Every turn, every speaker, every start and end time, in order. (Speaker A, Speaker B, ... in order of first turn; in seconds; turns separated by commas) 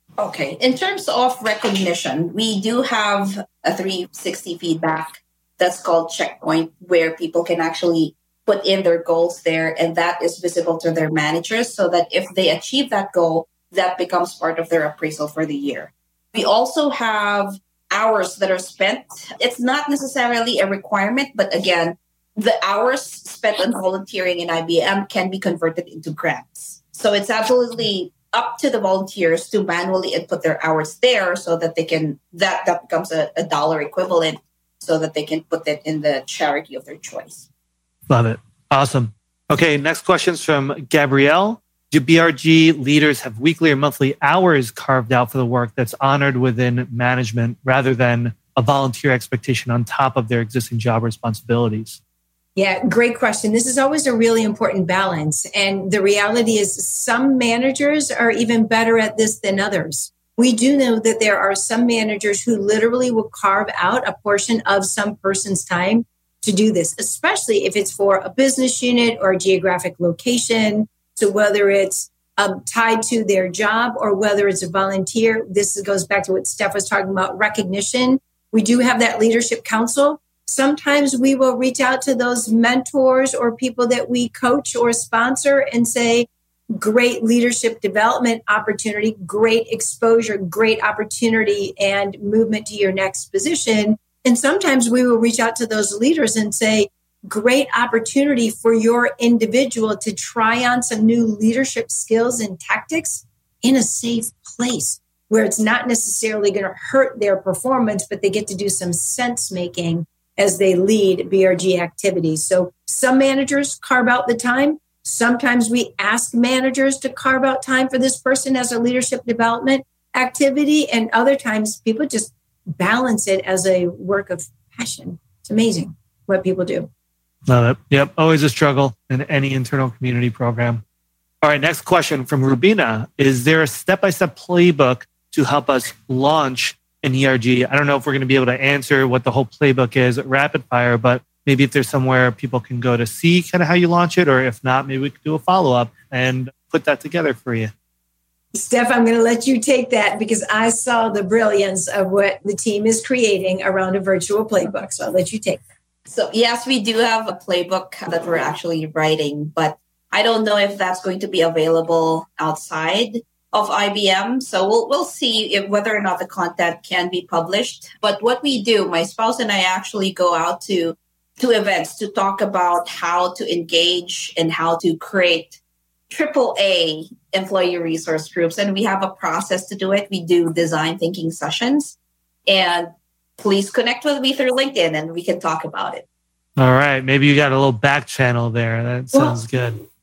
Speaker A: 0.2-37.5, Speaker B: 38.1-52.0, Speaker C: 52.6-126.9, Speaker B: 127.5-130.8, Speaker B: 131.4-147.7, Speaker C: 148.5-155.6, Speaker A: 156.1-175.6, Speaker A: 176.1-186.1, Speaker B: 186.6-189.8, Speaker C: 189.1-189.4